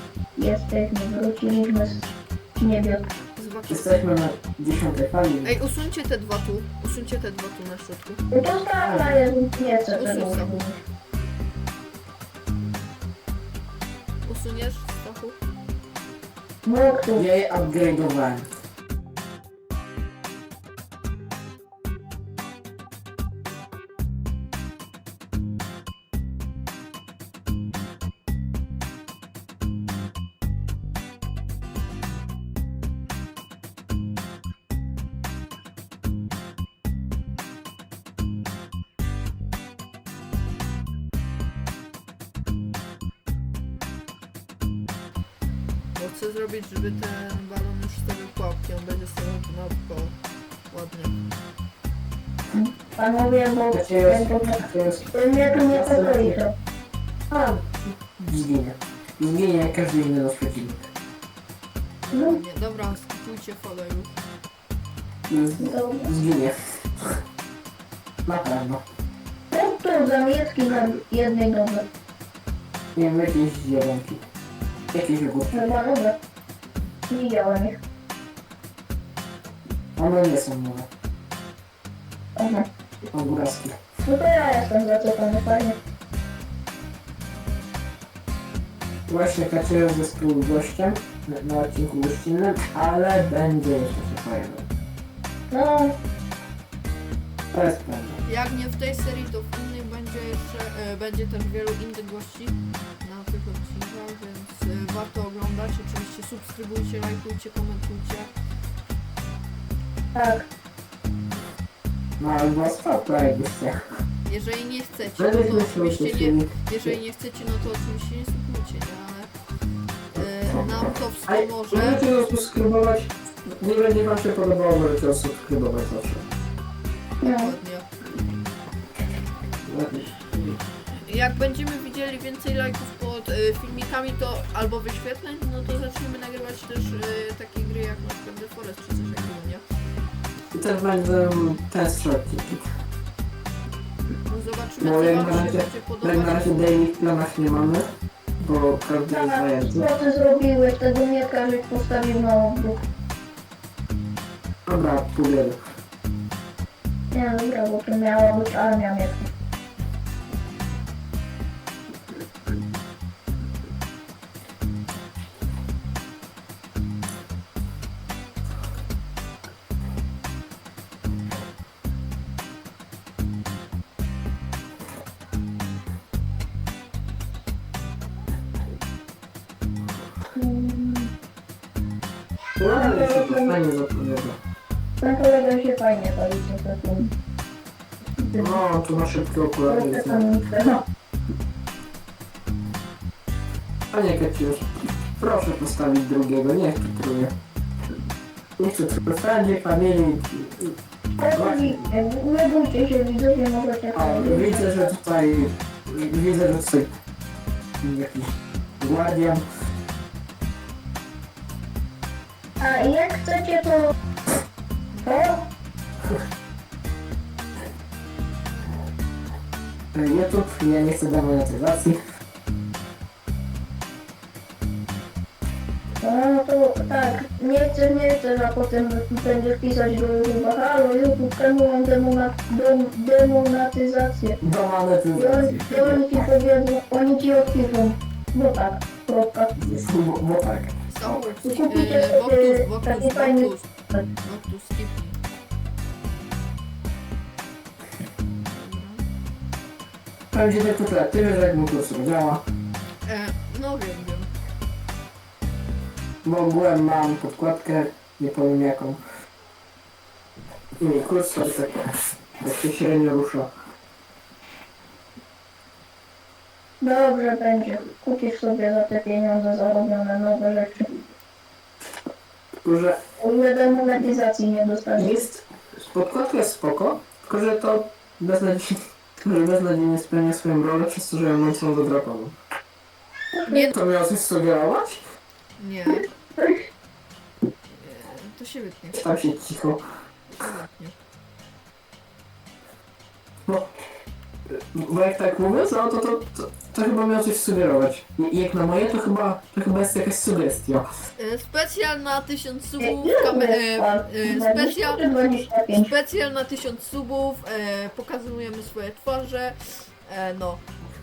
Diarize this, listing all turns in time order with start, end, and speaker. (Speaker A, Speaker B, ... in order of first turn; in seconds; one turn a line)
Speaker A: 0.3-2.1
Speaker A: 2.6-3.1
Speaker B: 3.4-3.9
Speaker C: 3.7-5.6
Speaker B: 5.4-8.2
Speaker A: 8.3-10.8
Speaker C: 8.8-9.2
Speaker B: 9.9-10.6
Speaker B: 14.2-15.4
Speaker A: 16.6-17.3
Speaker C: 17.1-18.5
Speaker B: 46.0-50.1
Speaker B: 50.7-51.1
Speaker A: 52.5-56.5
Speaker C: 53.7-56.4
Speaker C: 57.3-60.8
Speaker B: 62.0-64.1
Speaker A: 62.1-62.4
Speaker C: 65.3-66.5
Speaker A: 65.6-66.1
Speaker C: 68.2-68.8
Speaker A: 69.5-71.9
Speaker C: 72.9-74.2
Speaker C: 74.9-75.7
Speaker A: 75.5-76.2
Speaker A: 77.1-77.8
Speaker C: 80.0-80.9
Speaker A: 82.3-82.6
Speaker C: 83.1-83.7
Speaker A: 84.0-85.8
Speaker C: 89.1-94.7
Speaker A: 95.5-96.0
Speaker C: 97.5-98.2
Speaker B: 98.2-108.3
Speaker A: 110.1-110.5
Speaker C: 112.2-113.8
Speaker B: 114.2-119.3
Speaker C: 115.2-117.0
Speaker B: 120.1-122.1
Speaker C: 121.3-126.2
Speaker A: 127.2-127.5
Speaker B: 127.2-127.8
Speaker C: 129.6-130.6
Speaker B: 131.0-139.6
Speaker C: 140.5-142.6
Speaker B: 144.3-146.6
Speaker C: 144.8-147.8
Speaker C: 148.4-149.9
Speaker A: 149.1-152.8
Speaker C: 154.7-155.6
Speaker A: 157.1-159.3
Speaker A: 180.3-181.1
Speaker C: 182.6-184.4
Speaker A: 182.7-183.6
Speaker A: 185.0-187.1
Speaker A: 188.2-188.6
Speaker C: 188.4-190.3
Speaker A: 189.6-190.8
Speaker C: 193.9-194.7
Speaker C: 195.2-197.3
Speaker C: 198.6-200.7
Speaker A: 201.2-204.9
Speaker C: 201.3-201.9
Speaker C: 203.9-206.9
Speaker C: 207.8-208.3
Speaker C: 208.8-209.4
Speaker A: 212.6-213.9
Speaker B: 214.9-215.4
Speaker A: 215.0-215.5
Speaker C: 219.9-222.0
Speaker A: 226.0-234.4
Speaker C: 234.4-236.0
Speaker A: 235.1-239.5
Speaker C: 239.6-241.2
Speaker B: 240.9-243.7
Speaker A: 241.4-244.0
Speaker B: 244.2-245.2
Speaker B: 248.4-249.0
Speaker C: 250.3-252.4
Speaker B: 253.0-254.3
Speaker C: 256.2-259.0
Speaker C: 260.8-261.8
Speaker C: 262.4-263.5
Speaker A: 266.8-270.9
Speaker C: 272.6-273.0
Speaker A: 273.2-275.2
Speaker C: 275.0-282.4
Speaker B: 283.5-283.7
Speaker C: 283.5-285.0
Speaker B: 285.6-286.1
Speaker B: 287.7-289.0
Speaker C: 288.9-289.8
Speaker B: 290.3-290.9
Speaker C: 294.7-300.8
Speaker B: 301.2-305.1
Speaker A: 302.8-305.9
Speaker B: 305.7-310.6